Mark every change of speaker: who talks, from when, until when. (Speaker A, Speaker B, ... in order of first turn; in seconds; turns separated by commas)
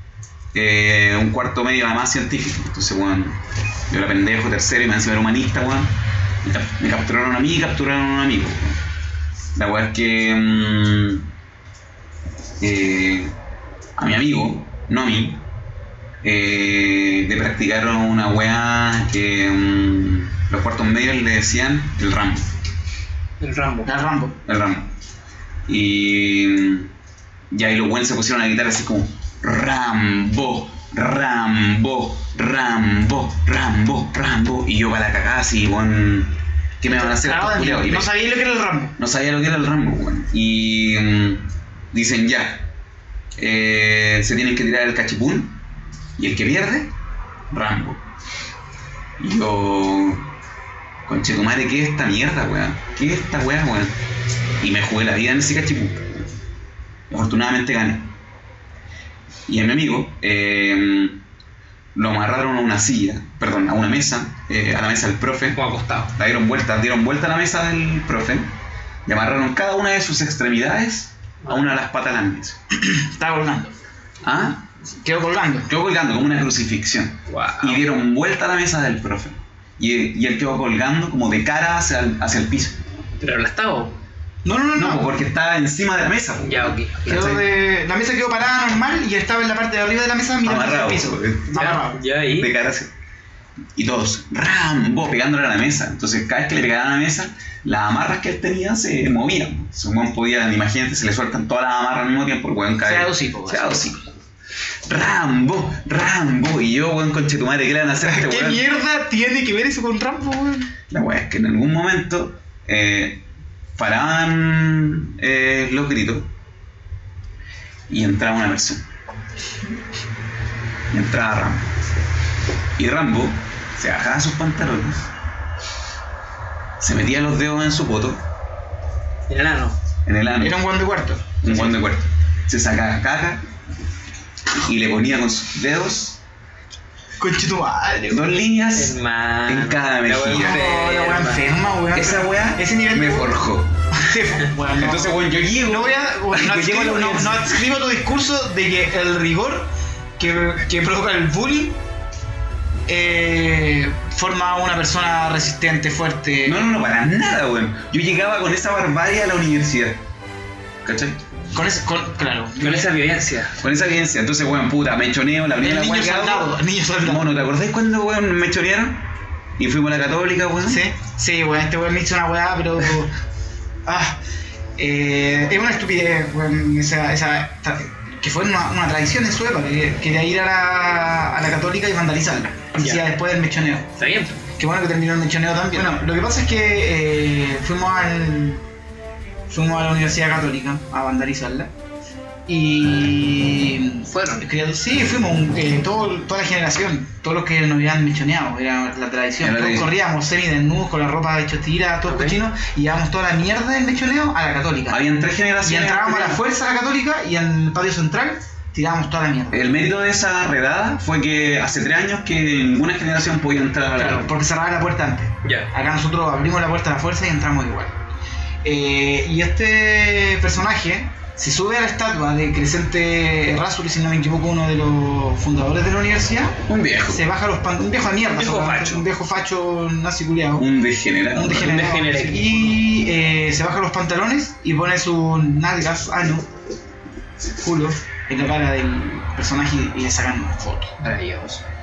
Speaker A: 0.5-3.4, Speaker A: 3.9-8.8, Speaker A: 9.6-11.3, Speaker A: 12.6-13.3, Speaker A: 14.0-15.4, Speaker A: 16.2-22.5, Speaker B: 23.4-23.9, Speaker C: 23.9-24.4, Speaker A: 24.4-24.9, Speaker A: 25.7-26.9, Speaker A: 27.5-38.1, Speaker C: 36.9-38.9, Speaker A: 39.0-42.7, Speaker A: 43.4-45.6, Speaker A: 46.2-46.9, Speaker A: 47.5-48.0, Speaker A: 49.2-50.3, Speaker A: 51.1-53.9, Speaker A: 54.6-56.3, Speaker A: 57.1-58.1, Speaker A: 59.5-61.2, Speaker A: 62.0-65.6, Speaker B: 65.5-66.1, Speaker A: 66.2-68.5, Speaker A: 69.1-72.6, Speaker B: 71.4-71.8, Speaker C: 72.8-73.7, Speaker A: 74.2-74.6, Speaker C: 75.0-75.7, Speaker A: 75.7-82.8, Speaker B: 77.3-77.8, Speaker B: 83.2-84.0, Speaker C: 84.5-85.2, Speaker A: 84.8-87.4, Speaker B: 86.4-87.4, Speaker C: 87.1-92.0, Speaker A: 90.4-91.6, Speaker B: 91.5-92.5, Speaker A: 92.3-92.9, Speaker A: 93.8-104.0, Speaker C: 102.8-103.9, Speaker A: 104.9-108.6, Speaker C: 108.0-110.7, Speaker A: 110.9-113.2, Speaker A: 113.8-116.3, Speaker A: 117.9-118.8, Speaker A: 120.9-121.7, Speaker A: 122.8-125.1, Speaker A: 126.8-128.2, Speaker B: 129.3-129.8, Speaker A: 130.1-130.6, Speaker C: 130.4-131.7, Speaker A: 131.4-133.4, Speaker A: 134.6-136.2, Speaker C: 137.2-138.4, Speaker A: 138.1-140.6, Speaker B: 138.7-141.5, Speaker C: 140.3-143.4, Speaker A: 141.9-143.8, Speaker C: 143.9-151.8, Speaker A: 144.7-147.6, Speaker C: 152.9-156.7, Speaker A: 156.4-160.0, Speaker A: 160.8-161.2, Speaker C: 161.5-162.9, Speaker B: 162.6-163.6, Speaker A: 163.6-169.1, Speaker C: 165.6-167.3, Speaker A: 169.6-170.8, Speaker C: 170.7-173.1, Speaker C: 173.9-174.2, Speaker C: 174.8-183.9, Speaker B: 182.8-183.0, Speaker B: 184.0-184.4, Speaker C: 184.6-188.6, Speaker C: 189.5-191.7, Speaker C: 192.5-209.7, Speaker B: 194.1-194.5, Speaker A: 199.4-199.9, Speaker B: 202.1-202.4, Speaker A: 204.9-206.4, Speaker A: 209.5-214.3, Speaker C: 214.0-217.9, Speaker B: 215.4-215.7, Speaker C: 218.6-226.6, Speaker A: 226.7-227.2, Speaker C: 227.1-230.7, Speaker B: 228.4-229.1, Speaker A: 230.6-231.9, Speaker C: 231.3-236.5, Speaker B: 231.5-232.8, Speaker C: 237.6-240.9, Speaker B: 241.0-241.6